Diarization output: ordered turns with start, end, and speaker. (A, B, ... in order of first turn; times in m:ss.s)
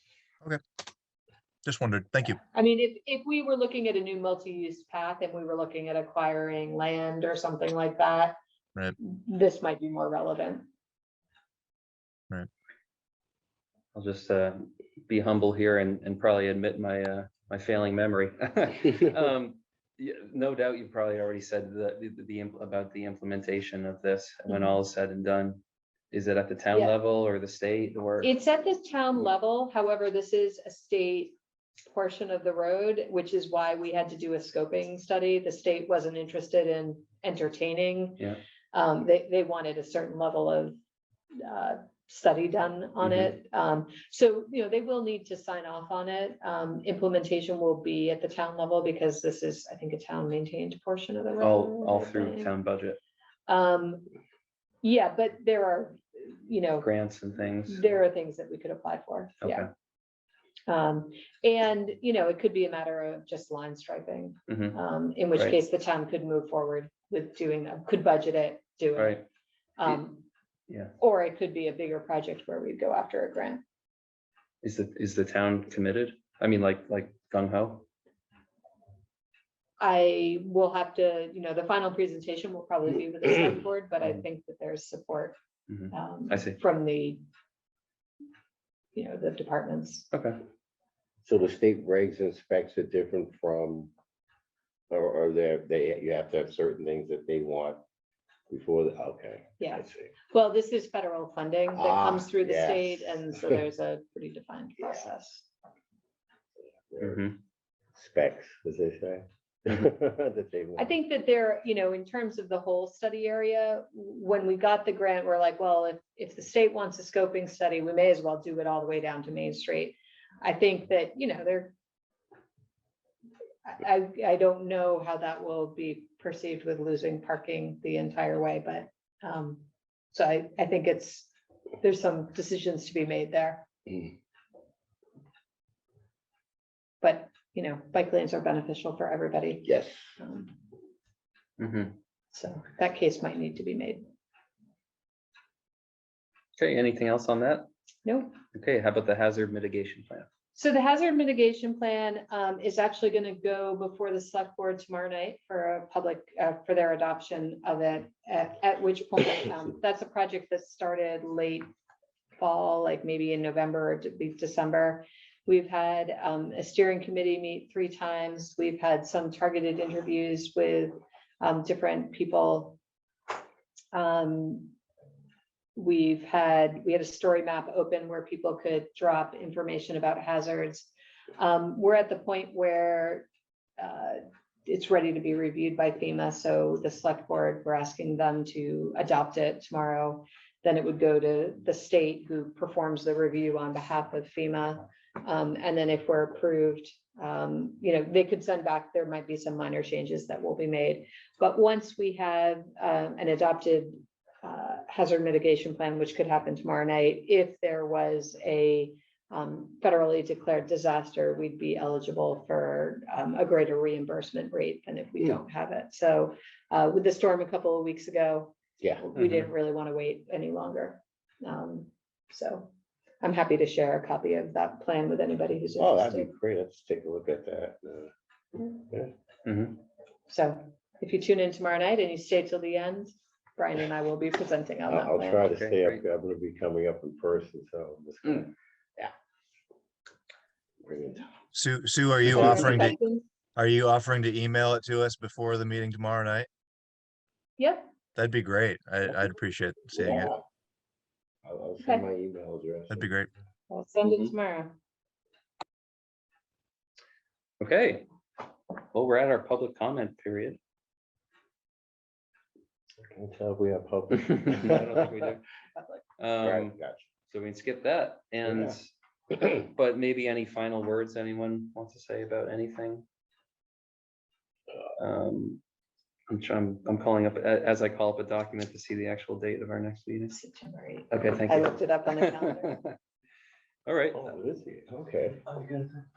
0:01.6-0:02.4 A
0:02.4-0:08.4 B
0:09.0-0:10.6 B
0:13.9-0:28.3 C
0:28.2-0:31.4 B
0:31.9-0:40.8 B
0:41.4-0:52.5 B
0:43.0-0:43.3 C
0:51.4-0:53.0 C
0:53.5-0:54.1 B
0:54.8-0:56.9 B
0:56.8-0:57.9 C
0:57.7-0:59.7 B
0:59.4-0:59.7 C
1:00.7-1:09.2 B
1:04.5-1:04.8 C
1:09.0-1:09.2 C
1:09.8-1:10.2 B
1:11.0-1:13.6 B
1:14.6-1:17.8 C
1:19.8-1:25.4 B
1:25.7-1:26.6 C
1:25.9-1:27.2 B
1:29.0-1:30.1 B
1:30.1-1:30.4 C
1:31.2-1:33.9 D
1:34.9-1:37.8 D
1:38.5-1:40.1 D
1:39.6-1:45.5 B
1:41.8-1:43.6 D
1:46.8-1:47.3 D
1:47.0-1:47.4 C
1:48.0-1:50.9 D
1:50.8-2:01.7 B
2:03.7-2:11.3 B
2:11.8-2:13.7 B
2:17.0-2:20.5 B
2:19.7-2:20.0 D
2:21.6-2:21.9 C
2:22.3-2:24.0 B
2:26.6-2:27.7 C
2:28.1-2:28.4 B
2:28.5-2:30.3 C
2:30.6-2:41.7 B
2:42.4-2:52.8 B
2:53.9-2:54.7 B
2:55.8-3:03.3 B
3:03.8-3:46.3 B
3:39.2-3:39.5 C
3:45.8-3:49.1 D
3:49.5-3:49.8 C
3:50.3-3:55.4 B
3:54.9-3:59.1 D
3:55.5-3:56.0 C
4:00.8-4:01.3 D
4:01.5-4:03.0 A
4:02.2-4:03.2 B
4:02.3-4:02.8 D
4:03.6-4:06.5 A
4:07.6-4:07.8 B
4:08.2-4:10.3 A
4:10.0-4:10.4 D
4:11.4-4:13.1 D
4:12.9-4:13.3 A
4:13.7-4:14.8 B
4:17.6-4:18.1 C
4:18.9-4:20.6 C
4:23.0-4:25.2 D
4:24.1-4:25.4 C
4:26.2-4:26.8 C
4:26.4-4:27.0 D
4:27.3-4:33.0 C
4:28.5-4:28.8 D
4:35.0-4:35.6 C
4:36.3-4:40.4 C
4:40.3-4:42.8 B
4:41.1-4:43.0 C
4:43.9-4:44.3 C
4:44.1-4:45.7 D